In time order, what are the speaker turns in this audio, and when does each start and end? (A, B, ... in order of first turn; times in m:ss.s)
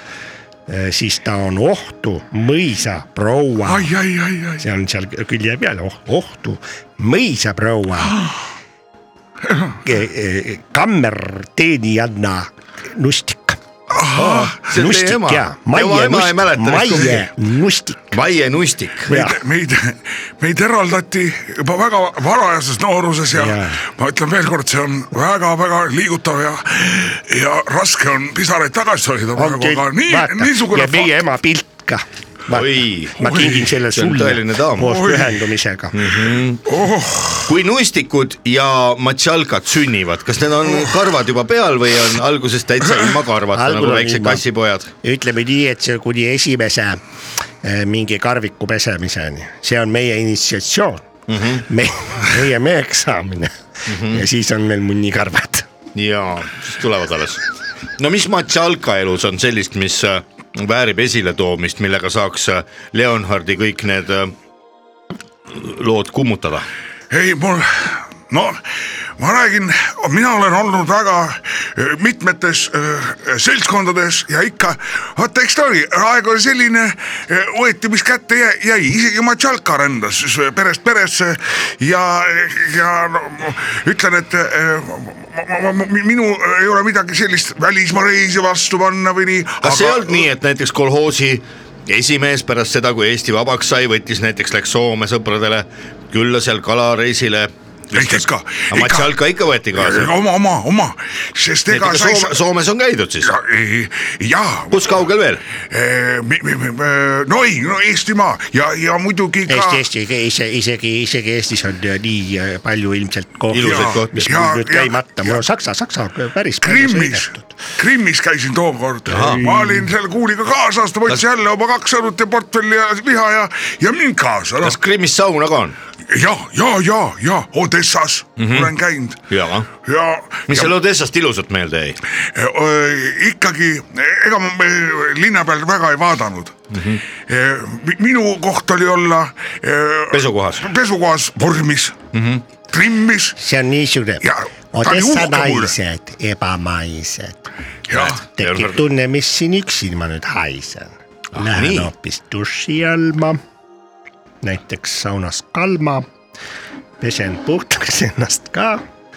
0:00.7-0:03.9 A
0:03.6-0:04.6 B
0:04.6-0:08.2 A
0:08.0-0:08.3 B
0:09.4-0:09.8 B
0:09.8-0:13.6 A
0:13.9-0:14.6 B
0:14.1-0:18.1 A
0:14.2-0:17.3 C
0:18.1-0:19.1 C
0:19.1-0:31.1 B
0:19.1-0:19.4 A
0:23.3-0:23.8 A
0:29.4-0:36.0 A
0:32.5-0:34.9 C
0:33.2-0:33.6 B
0:34.8-0:35.4 B
0:35.9-0:36.6 C
0:36.7-0:37.5 B
0:37.4-0:44.9 C
0:43.5-0:44.4 A
0:45.0-0:47.0 A
0:47.6-0:51.0 A
0:51.3-0:51.6 C
0:51.6-0:55.7 A
0:53.9-0:54.2 C
0:55.9-0:57.5 C
0:58.0-1:04.3 C
1:05.5-1:06.6 C
1:07.1-1:08.6 B
1:09.2-1:30.3 B
1:29.6-1:40.1 C
1:37.9-1:39.2 B
1:39.7-1:42.4 B
1:41.7-1:43.3 C
1:43.2-1:45.0 B
1:44.7-1:45.4 C
1:45.6-1:49.8 B
1:49.5-1:57.4 A
1:53.5-1:54.3 C
1:53.6-1:55.4 B
1:56.6-2:04.8 B
1:59.1-1:59.8 C
2:04.6-2:05.8 C
2:06.1-2:09.2 B
2:08.4-2:08.7 C
2:09.3-2:09.7 C
2:09.8-2:10.7 B
2:10.5-2:12.0 C
2:12.2-2:16.6 B
2:16.7-2:17.0 C
2:17.2-2:22.0 B
2:20.1-2:20.7 C
2:22.1-2:22.4 C
2:22.7-2:23.4 B
2:23.4-2:33.4 A
2:24.2-2:25.7 B
2:27.9-2:28.2 B
2:27.9-2:28.8 C
2:31.3-2:31.9 C
2:34.4-2:36.1 A
2:37.0-2:38.8 A